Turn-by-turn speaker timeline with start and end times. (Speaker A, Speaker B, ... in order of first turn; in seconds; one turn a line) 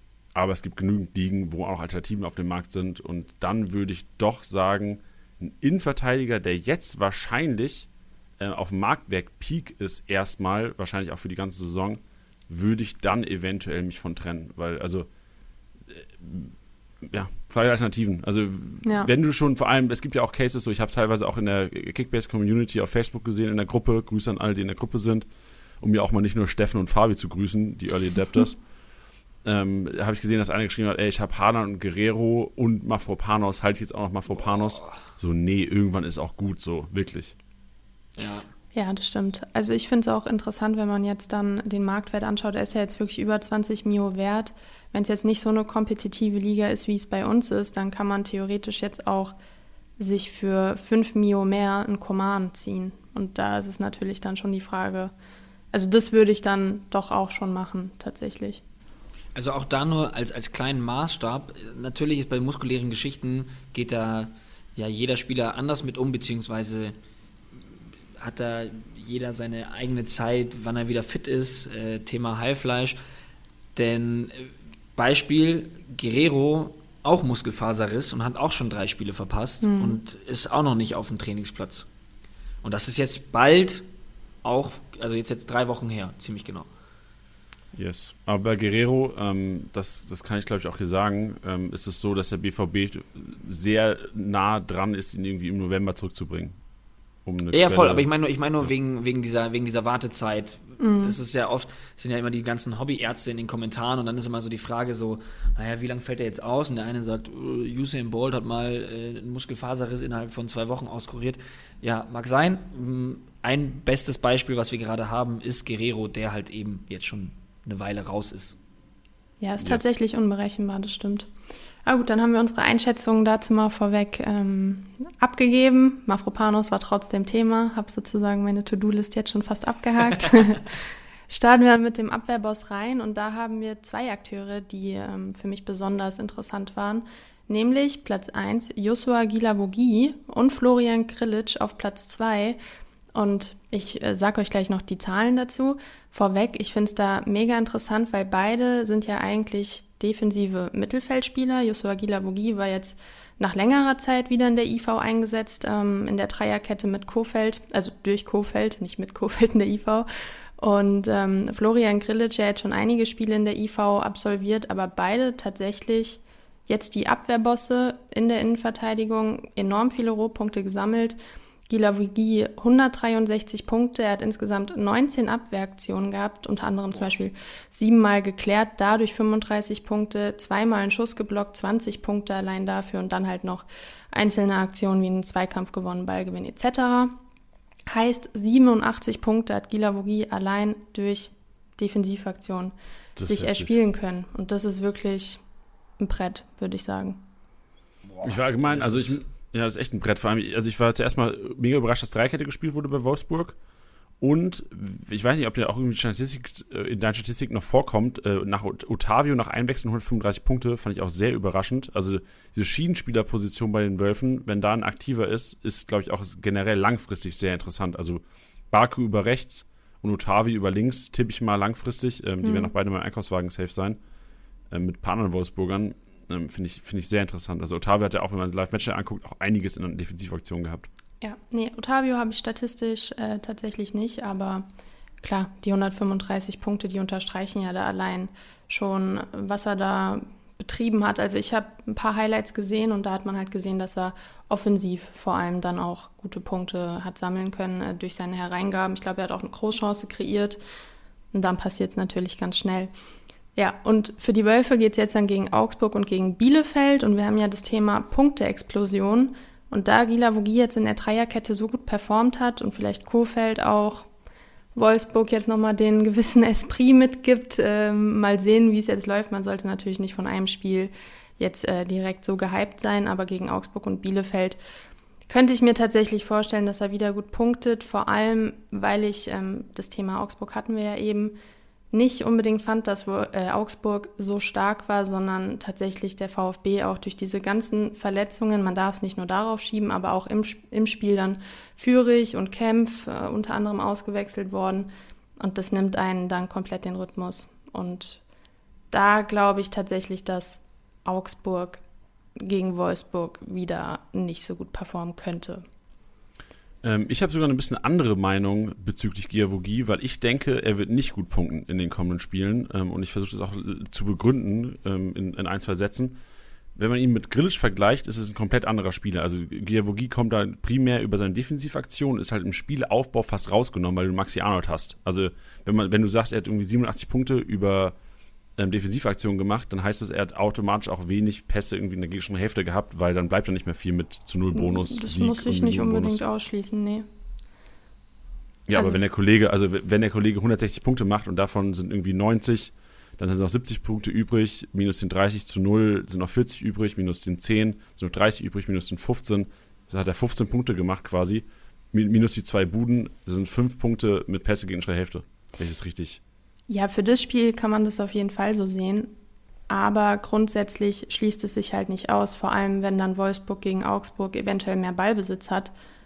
Speaker A: 0.3-7.9
Speaker A: 8.4-15.1
Speaker A: 15.9-25.3
Speaker B: 18.8-19.1
Speaker A: 25.8-28.6
Speaker A: 29.4-37.3
Speaker C: 34.4-35.0
Speaker C: 38.1-38.5
Speaker B: 38.7-49.4
Speaker B: 50.0-55.1
Speaker B: 55.7-58.6
Speaker C: 59.3-66.9
Speaker C: 68.2-73.0
Speaker C: 73.7-81.9
Speaker B: 79.6-80.0
Speaker C: 82.6-83.8
Speaker C: 84.4-86.7
Speaker A: 87.7-96.5
Speaker A: 97.2-98.1
Speaker C: 97.5-118.6
Speaker B: 100.8-101.2
Speaker B: 119.4-121.3
Speaker A: 119.6-119.9
Speaker B: 121.8-142.6
Speaker B: 143.1-187.2
Speaker B: 187.9-192.7
Speaker A: 193.2-193.8
Speaker B: 193.3-195.4
Speaker B: 196.0-197.2
Speaker C: 198.0-199.2
Speaker A: 198.2-203.6
Speaker A: 204.2-224.0
Speaker B: 222.4-222.7
Speaker A: 224.7-230.9
Speaker B: 231.2-234.6
Speaker B: 235.2-250.6
Speaker B: 251.3-252.9
Speaker B: 253.6-264.1
Speaker B: 264.7-274.6
Speaker B: 275.3-281.4
Speaker B: 281.9-298.2
Speaker B: 298.9-301.8
Speaker B: 302.4-305.6
Speaker A: 306.8-316.2
Speaker A: 316.8-327.9
Speaker A: 328.6-336.2
Speaker B: 334.5-337.1
Speaker A: 338.7-356.2
Speaker B: 356.7-359.1
Speaker B: 359.7-365.7